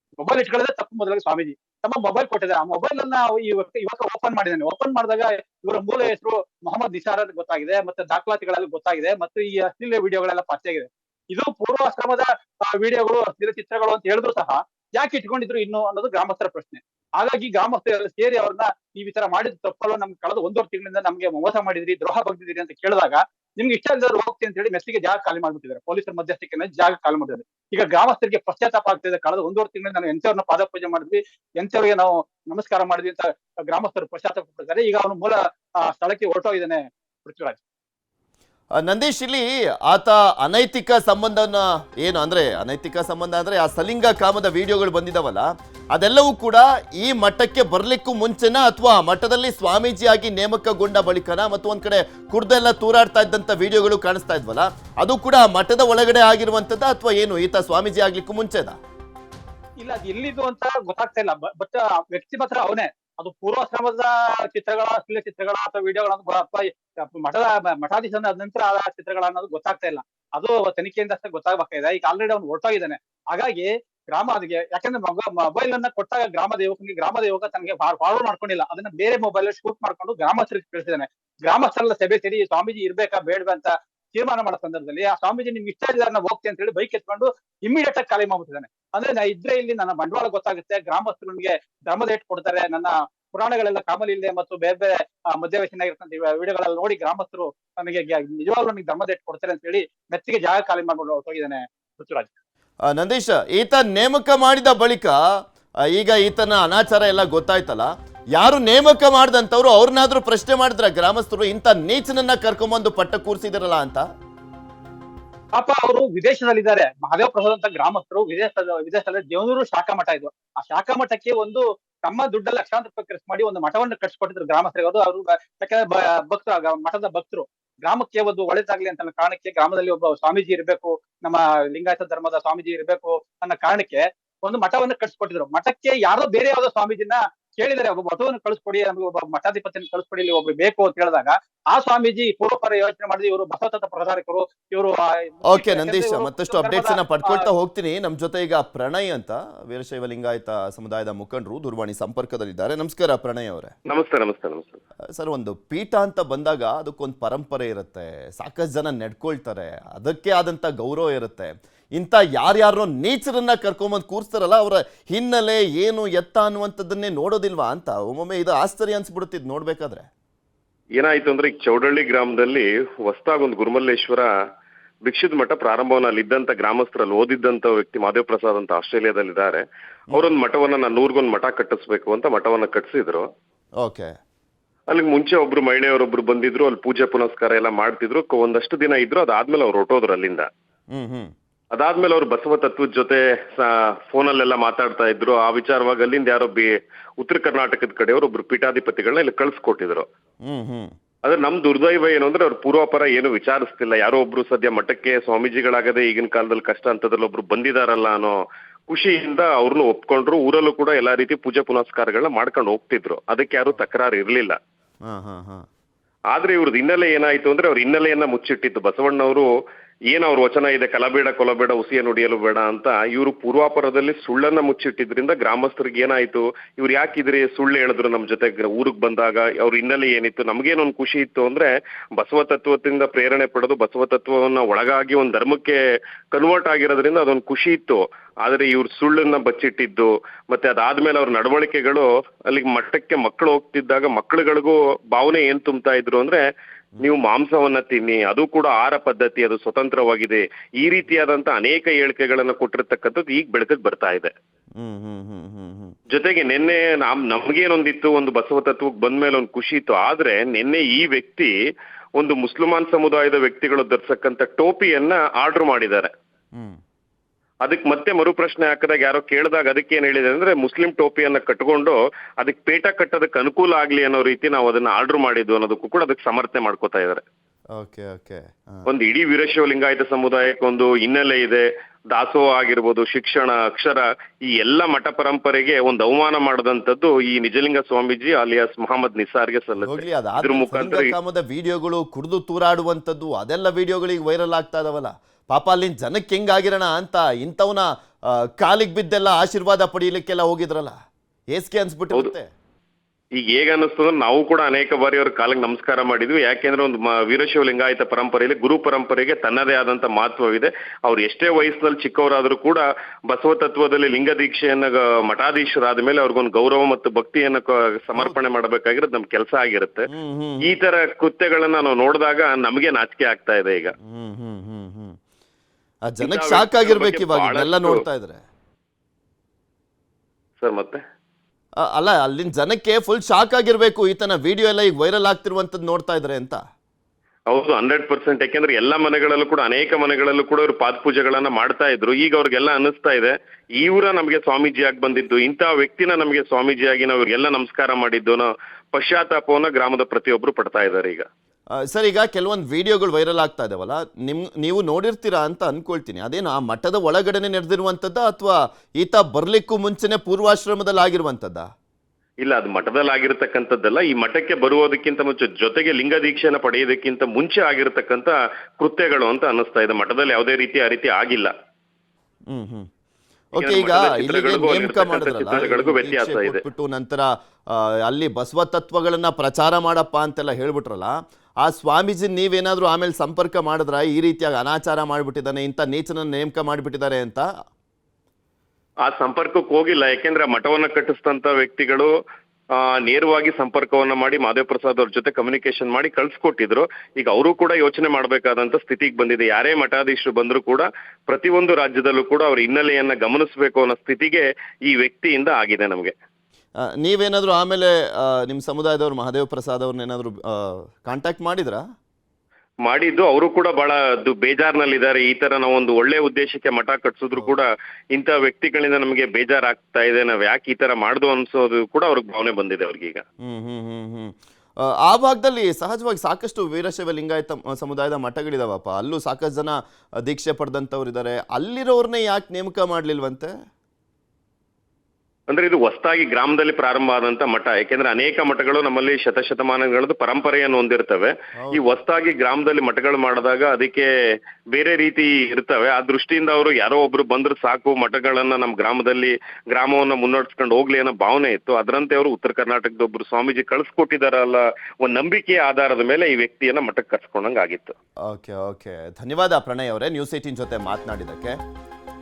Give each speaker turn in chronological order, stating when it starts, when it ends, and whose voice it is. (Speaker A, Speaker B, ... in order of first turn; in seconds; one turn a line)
Speaker A: 0.2-37.6
Speaker B: 38.8-58.8
Speaker A: 59.8-102.3
Speaker B: 102.9-105.2
Speaker B: 105.8-114.1
Speaker A: 115.5-147.5
Speaker B: 145.5-153.7
Speaker C: 153.9-154.8
Speaker B: 155.1-170.1
Speaker C: 171.0-174.3
Speaker C: 175.1-183.3
Speaker B: 183.8-184.2
Speaker C: 184.9-190.5
Speaker B: 190.9-191.3
Speaker C: 191.7-200.1
Speaker B: 200.4-200.9
Speaker C: 201.2-214.6
Speaker B: 215.1-215.7
Speaker C: 216.3-219.5
Speaker C: 220.1-235.8
Speaker C: 236.3-246.4
Speaker C: 247.0-254.3
Speaker B: 254.8-255.9
Speaker C: 256.1-261.5
Speaker C: 262.2-266.1
Speaker B: 266.6-266.8
Speaker C: 267.6-277.2
Speaker B: 277.8-278.9
Speaker C: 278.9-291.1
Speaker B: 289.8-301.0
Speaker B: 301.5-302.5
Speaker C: 303.4-320.1
Speaker B: 320.1-320.7
Speaker C: 320.6-323.9
Speaker B: 324.1-325.2
Speaker B: 326.1-328.4
Speaker C: 326.2-328.0
Speaker C: 330.6-331.0
Speaker B: 331.8-336.6
Speaker C: 337.5-351.3
Speaker B: 351.8-361.7
Speaker C: 362.4-371.5
Speaker B: 372.5-372.9
Speaker B: 373.5-387.5
Speaker C: 373.6-376.6
Speaker C: 389.0-392.1
Speaker C: 392.8-406.1
Speaker B: 406.8-411.8
Speaker C: 412.8-423.2
Speaker B: 423.4-433.5
Speaker C: 435.5-444.1
Speaker B: 441.6-441.8
Speaker C: 444.7-457.9
Speaker B: 458.3-461.6